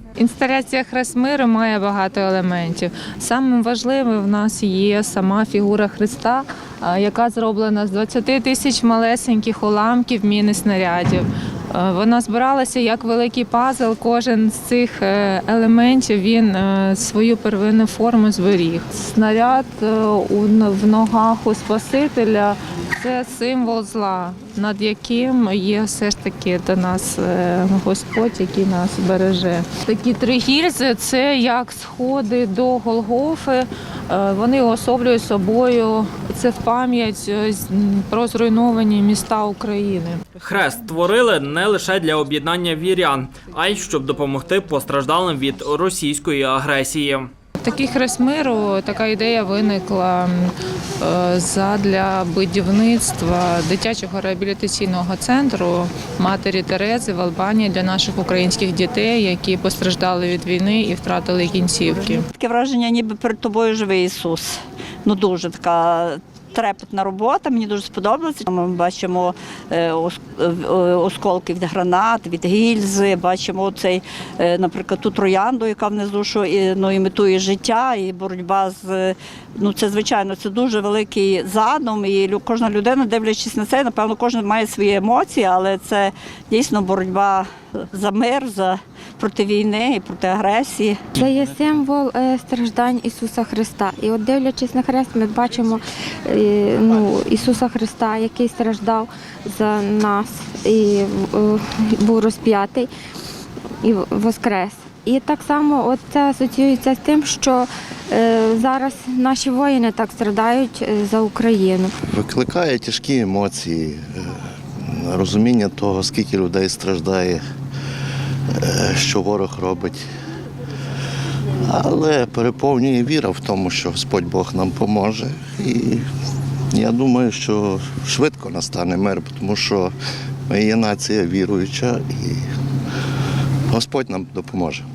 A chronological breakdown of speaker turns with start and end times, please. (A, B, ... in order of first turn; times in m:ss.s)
0:00.2-0:40.2 A
0:40.4-0:47.3 B
0:47.6-1:02.2 A
1:02.3-1:31.1 C
1:31.2-1:42.9 D
1:43.8-1:51.9 D
1:52.1-1:57.4 E
1:58.5-2:00.0 E
2:01.6-2:06.0 E
2:06.7-2:09.9 E
2:10.5-2:12.4 E
2:13.7-2:14.8 E